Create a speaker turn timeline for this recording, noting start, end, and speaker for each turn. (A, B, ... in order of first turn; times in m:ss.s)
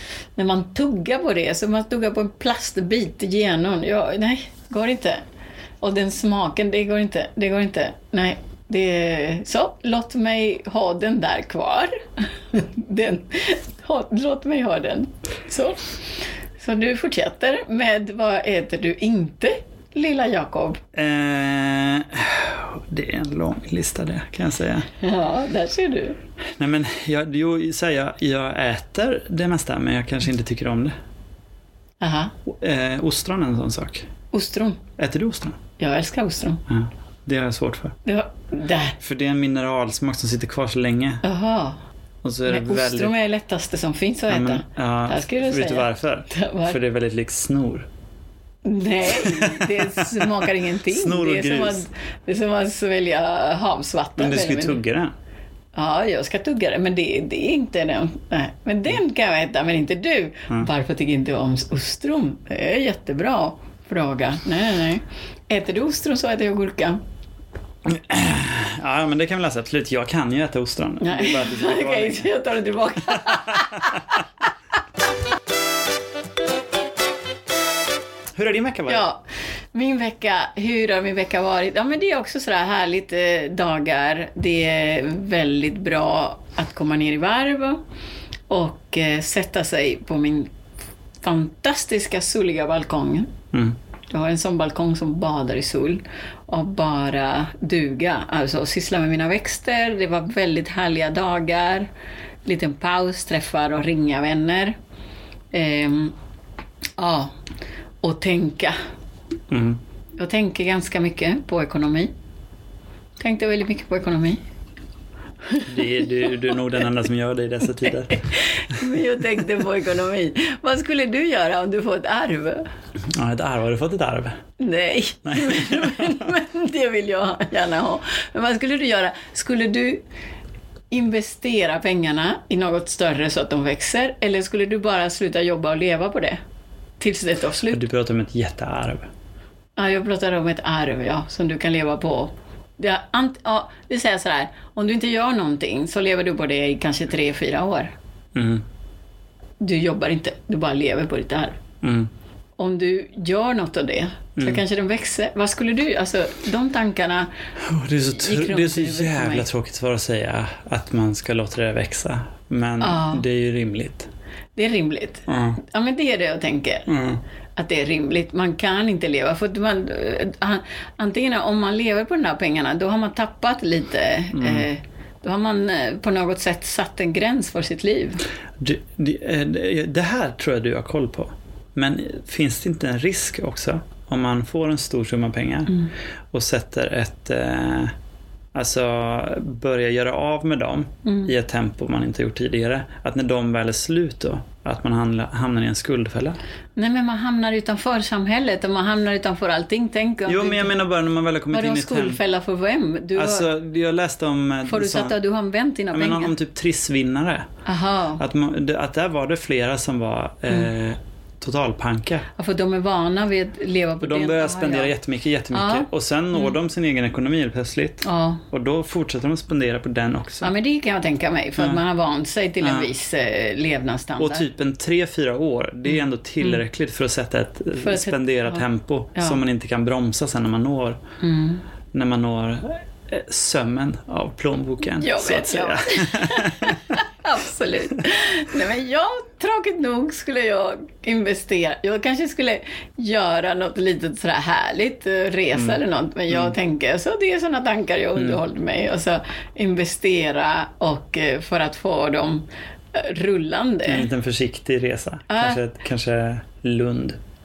0:00.4-0:05.2 A
0:05.8-0:11.9 A
0:12.5-0:15.8 A
0:16.6-0:20.8 A
0:20.9-0:24.9 B
0:25.0-0:26.2 A
0:26.6-0:31.0 B
0:32.0-0:32.3 A
0:32.5-0:34.1 B
0:34.3-0:34.8 A
0:35.0-0:35.6 B
0:35.8-0:36.6 A
0:36.7-0:38.0 B
0:38.0-0:39.0 A
0:39.0-0:41.2 B
0:41.2-0:41.8 A
0:42.2-0:43.1 B
0:42.5-0:46.8 A
0:44.3-0:47.9 B
0:48.6-0:54.8 A
0:49.1-0:51.8 B
0:54.2-0:55.1 B
0:55.8-1:07.0 A
1:07.8-1:12.3 B
1:11.0-1:14.2 A
1:13.1-1:14.0 B
1:18.4-1:19.0 B
1:18.9-1:19.2 A
1:19.7-1:27.8 A
1:28.5-1:30.5 A
1:31.2-1:33.3 A
1:34.1-1:41.9 A
1:42.4-1:44.8 A
1:45.5-1:46.2 A
1:47.0-1:47.3 A
1:48.0-1:48.8 A
1:49.5-1:49.8 B
1:50.2-1:52.1 A
1:53.2-1:54.4 A
1:55.5-1:56.6 A
1:55.7-1:58.2 B
1:58.2-2:02.7 A
2:03.1-2:04.4 B
2:04.6-2:10.0 A
2:05.3-2:06.3 B
2:10.9-2:16.4 A
2:17.0-2:17.8 A
2:17.7-2:19.1 B
2:19.8-2:27.9 A
2:28.4-2:28.6 B
2:29.6-2:31.6 A
2:31.8-2:32.1 B
2:32.6-2:37.3 A
2:34.4-2:34.6 B
2:37.6-2:44.1 B
2:38.2-2:39.5 A
2:42.8-2:43.2 A
2:44.6-2:46.9 A
2:45.3-2:45.6 B
2:46.9-2:47.2 B
2:47.6-2:58.2 A
2:54.3-2:54.7 B
2:58.6-3:05.8 B
3:06.3-3:07.9 B
3:08.5-3:16.4 B
3:11.0-3:11.3 A
3:16.8-3:20.7 A
3:20.3-3:22.2 B
3:21.5-3:23.5 A
3:23.2-3:25.2 B
3:24.7-3:26.3 A
3:25.9-3:27.5 B
3:27.7-3:28.2 A
3:28.2-3:32.3 B
3:32.4-3:34.9 A
3:34.0-3:40.5 B
3:35.5-3:36.6 A
3:38.0-3:38.4 A
3:40.4-3:44.5 A
3:42.6-3:42.9 B
3:44.2-3:51.0 B
3:47.8-3:48.6 A
3:49.2-3:49.4 A
3:51.2-3:51.6 A
3:51.9-3:56.8 B
3:54.9-4:14.1 A
4:06.3-4:06.6 B
4:13.9-4:17.2 B
4:15.3-4:15.6 A